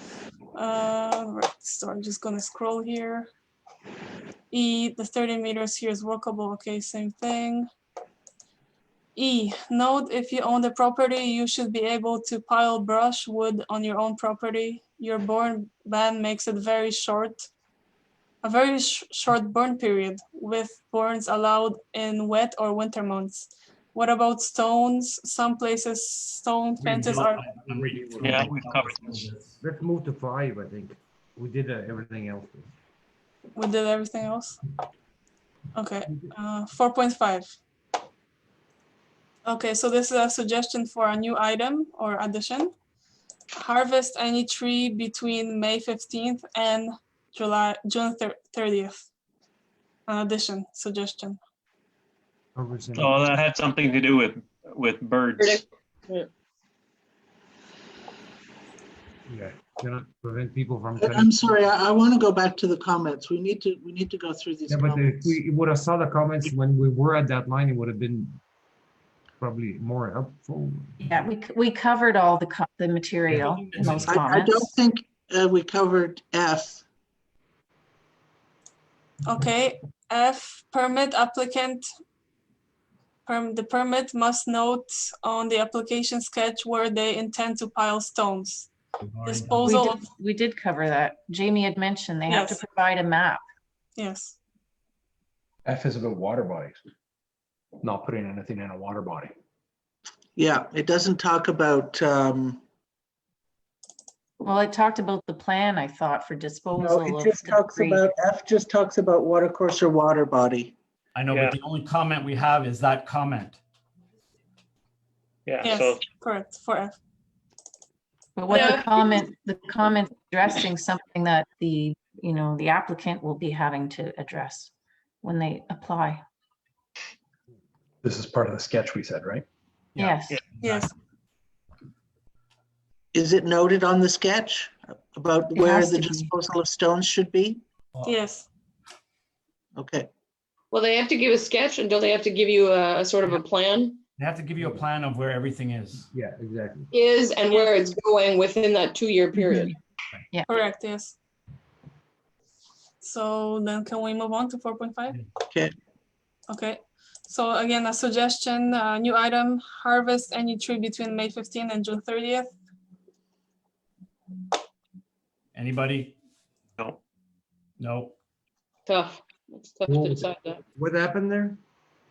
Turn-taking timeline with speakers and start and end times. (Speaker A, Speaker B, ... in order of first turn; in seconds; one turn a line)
Speaker A: 0.5-3.3
Speaker A: 4.5-7.7
Speaker A: 9.2-17.5
Speaker A: 18.4-27.4
Speaker B: 26.8-29.6
Speaker C: 27.6-28.6
Speaker D: 28.2-29.3
Speaker C: 29.6-32.7
Speaker A: 33.5-34.6
Speaker A: 35.7-37.5
Speaker A: 39.5-42.7
Speaker A: 43.5-49.1
Speaker A: 50.1-51.4
Speaker C: 52.5-53.2
Speaker D: 52.9-55.6
Speaker E: 55.4-56.3
Speaker C: 59.3-61.6
Speaker F: 61.0-65.4
Speaker C: 64.7-68.4
Speaker C: 69.4-70.9
Speaker G: 71.0-74.7
Speaker B: 73.3-74.1
Speaker F: 73.8-76.8
Speaker A: 79.2-81.8
Speaker A: 83.2-88.7
Speaker B: 89.0-89.7
Speaker A: 89.2-90.1
Speaker G: 89.6-93.4
Speaker A: 92.3-92.6
Speaker A: 94.0-94.4
Speaker H: 95.6-96.8
Speaker H: 97.8-99.3
Speaker F: 100.3-102.6
Speaker G: 104.4-108.1
Speaker F: 106.8-110.7
Speaker B: 111.1-113.6
Speaker D: 111.3-111.6
Speaker D: 115.5-116.0
Speaker A: 115.6-117.0
Speaker G: 118.4-124.7
Speaker E: 118.5-118.9
Speaker G: 125.2-126.2
Speaker H: 128.0-129.4
Speaker G: 129.9-130.4
Speaker A: 130.6-130.9
Speaker F: 133.1-137.6
Speaker G: 135.5-136.3
Speaker A: 138.0-138.4
Speaker F: 139.8-140.1
Speaker E: 140.7-144.0
Speaker B: 144.2-146.1
Speaker C: 144.6-144.8
Speaker C: 146.1-146.9
Speaker E: 146.9-149.7
Speaker A: 147.5-147.8
Speaker G: 149.4-149.7
Speaker A: 150.5-151.2
Speaker A: 153.0-155.2
Speaker A: 156.5-162.5
Speaker B: 165.5-166.1
Speaker B: 167.8-168.2
Speaker E: 168.9-170.6
Speaker C: 169.9-171.6